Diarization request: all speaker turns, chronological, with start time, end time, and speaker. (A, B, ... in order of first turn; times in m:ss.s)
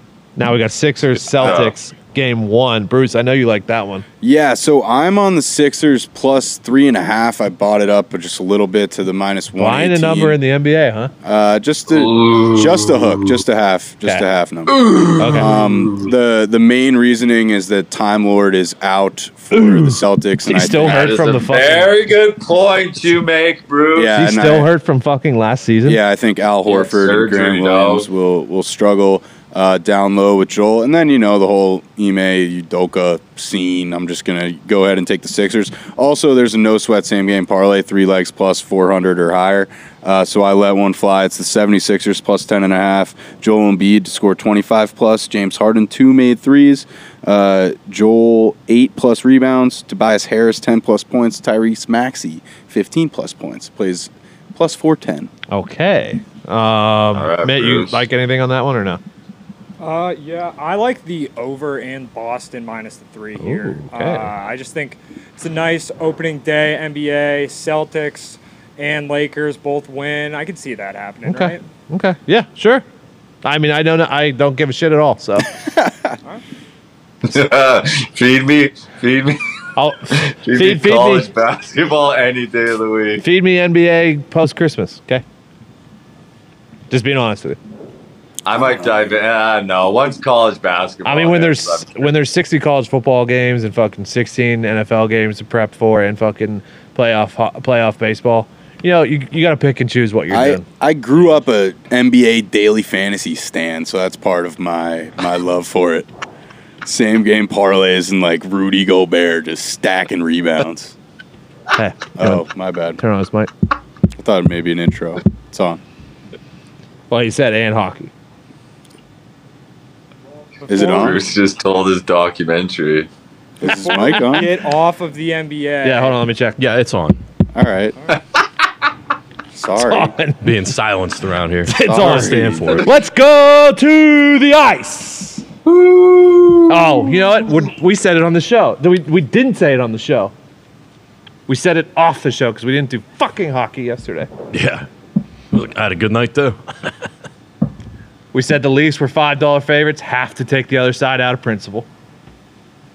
0:00.4-0:04.0 A
0:01.4-0:01.7 B
0:04.2-0:10.4 C
0:09.6-0:11.1 A
0:11.2-0:21.1 C
0:11.9-0:13.4 B
0:14.7-0:16.1 B
0:15.2-0:15.5 A
0:19.5-0:21.9 A
0:20.7-0:24.1 B
0:24.0-0:24.7 C
0:24.2-0:26.0 A
0:25.8-0:55.3 C
0:26.7-0:28.1 B
0:55.5-0:59.0 A
0:57.2-0:58.0 B
0:59.8-1:11.6 D
1:03.4-1:04.3 A
1:11.2-1:12.8 A
1:13.4-1:15.5 A
1:15.6-1:16.2 C
1:17.2-1:19.4 B
1:19.8-1:21.3 A
1:20.1-1:23.2 B
1:23.2-1:25.2 A
1:26.9-1:27.6 A
1:28.4-1:32.1 B
1:31.0-1:40.6 A
1:40.3-1:46.1 C
1:46.8-1:51.0 C
1:51.7-1:52.4 A
1:52.2-1:53.0 C
1:53.0-1:53.5 A
1:54.2-1:55.8 C
1:57.1-1:58.1 A
2:00.7-2:01.2 C
2:00.7-2:01.0 D
2:00.7-2:03.1 B
2:03.6-2:04.5 C
2:03.6-2:06.2 D
2:05.8-2:06.6 A
2:06.6-2:07.2 E
2:07.5-2:08.0 C
2:09.5-2:10.2 C
2:09.8-2:10.5 A
2:10.4-2:12.9 E
2:11.7-2:15.5 A
2:11.8-2:12.9 C
2:15.7-2:16.6 B
2:16.7-2:20.3 A
2:21.5-2:24.3 A
2:24.5-2:24.9 E
2:25.5-2:26.6 E
2:28.3-2:31.9 A